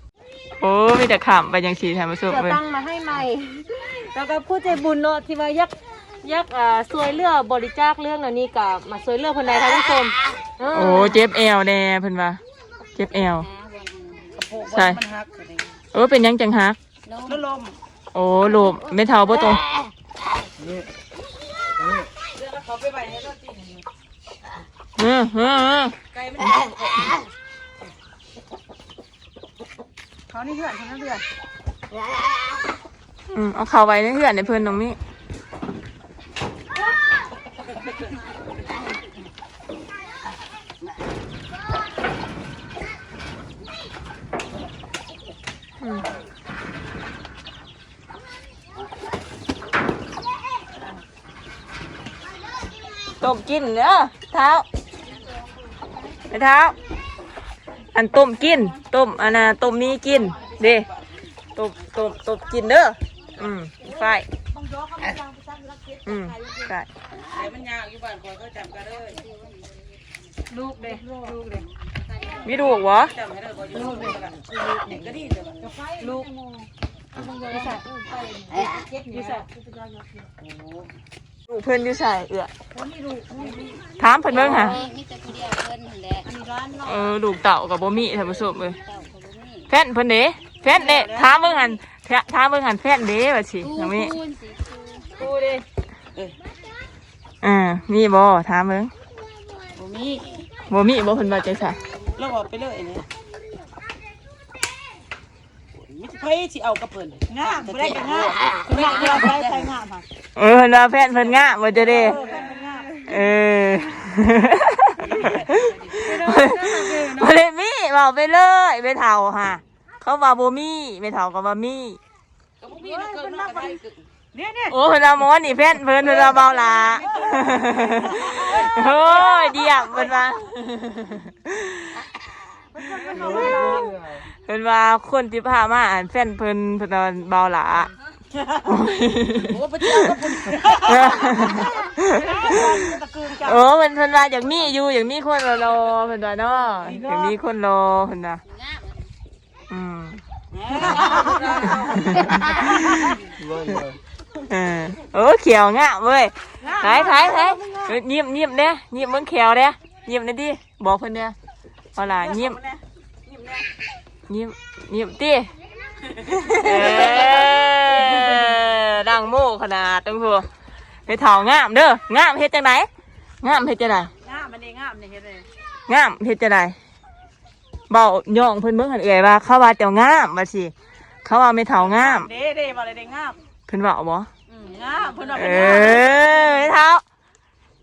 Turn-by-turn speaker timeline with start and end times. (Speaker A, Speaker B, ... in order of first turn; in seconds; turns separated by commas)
Speaker A: 0.6-2.6, Speaker B: 2.3-11.2, Speaker A: 10.7-12.4, Speaker A: 12.9-13.4, Speaker C: 13.4-14.4, Speaker D: 14.3-15.8, Speaker A: 14.7-15.0, Speaker A: 15.9-16.8, Speaker C: 17.0-17.4, Speaker D: 17.2-17.8, Speaker A: 18.1-19.6, Speaker E: 20.6-20.9, Speaker D: 22.3-23.8, Speaker A: 25.0-25.9, Speaker D: 26.1-27.2, Speaker D: 30.3-31.2, Speaker A: 33.3-35.0, Speaker A: 45.8-46.0, Speaker A: 53.2-54.6, Speaker A: 56.3-56.8, Speaker A: 57.9-60.9, Speaker D: 59.2-61.2, Speaker A: 61.5-64.2, Speaker D: 64.5-65.3, Speaker A: 66.0-66.9, Speaker D: 67.3-69.2, Speaker C: 69.1-70.0, Speaker B: 70.5-71.7, Speaker D: 70.8-71.3, Speaker C: 72.0-72.7, Speaker D: 72.3-76.2, Speaker A: 72.4-73.1, Speaker B: 73.7-74.2, Speaker B: 76.0-76.6, Speaker B: 77.2-79.5, Speaker D: 78.5-79.5, Speaker D: 80.3-80.9, Speaker A: 81.5-82.5, Speaker B: 82.8-83.6, Speaker D: 83.3-83.8, Speaker A: 84.0-84.7, Speaker C: 84.3-86.3, Speaker D: 84.3-84.9, Speaker D: 86.2-87.1, Speaker A: 86.8-88.8, Speaker C: 88.7-89.7, Speaker A: 89.7-94.2, Speaker D: 90.7-91.3, Speaker C: 93.6-95.1, Speaker B: 95.2-95.6, Speaker A: 97.4-98.9, Speaker D: 99.7-100.5, Speaker A: 100.7-101.8, Speaker D: 102.1-103.1, Speaker D: 105.7-109.7, Speaker B: 107.3-110.0, Speaker A: 110.3-112.2, Speaker D: 111.2-112.9, Speaker B: 111.9-112.8, Speaker A: 113.0-122.0, Speaker D: 115.0-116.2, Speaker B: 116.0-117.3, Speaker D: 122.6-124.5, Speaker B: 122.8-123.7, Speaker A: 124.7-132.0, Speaker D: 126.0-129.9, Speaker B: 127.0-127.4, Speaker B: 132.8-133.9, Speaker D: 132.8-133.8, Speaker E: 133.1-134.2, Speaker A: 134.4-137.9, Speaker A: 138.6-140.2, Speaker D: 139.4-143.6, Speaker A: 140.7-142.9, Speaker A: 143.4-148.4, Speaker D: 146.8-147.3, Speaker C: 148.4-149.1, Speaker A: 149.7-150.2, Speaker D: 150.5-152.7, Speaker C: 150.8-151.7, Speaker A: 151.9-153.2, Speaker E: 153.3-154.0, Speaker A: 154.5-161.3, Speaker D: 156.6-157.8, Speaker A: 161.9-162.6, Speaker D: 162.0-163.7, Speaker A: 164.3-165.5, Speaker D: 166.1-168.4, Speaker A: 166.5-170.5, Speaker A: 171.1-172.9, Speaker A: 173.4-174.1, Speaker D: 174.2-175.4, Speaker A: 175.9-176.8, Speaker A: 177.9-180.7, Speaker A: 181.2-182.3, Speaker D: 181.8-183.4, Speaker A: 183.7-184.3, Speaker D: 184.5-186.6, Speaker C: 184.7-185.5, Speaker A: 185.3-187.0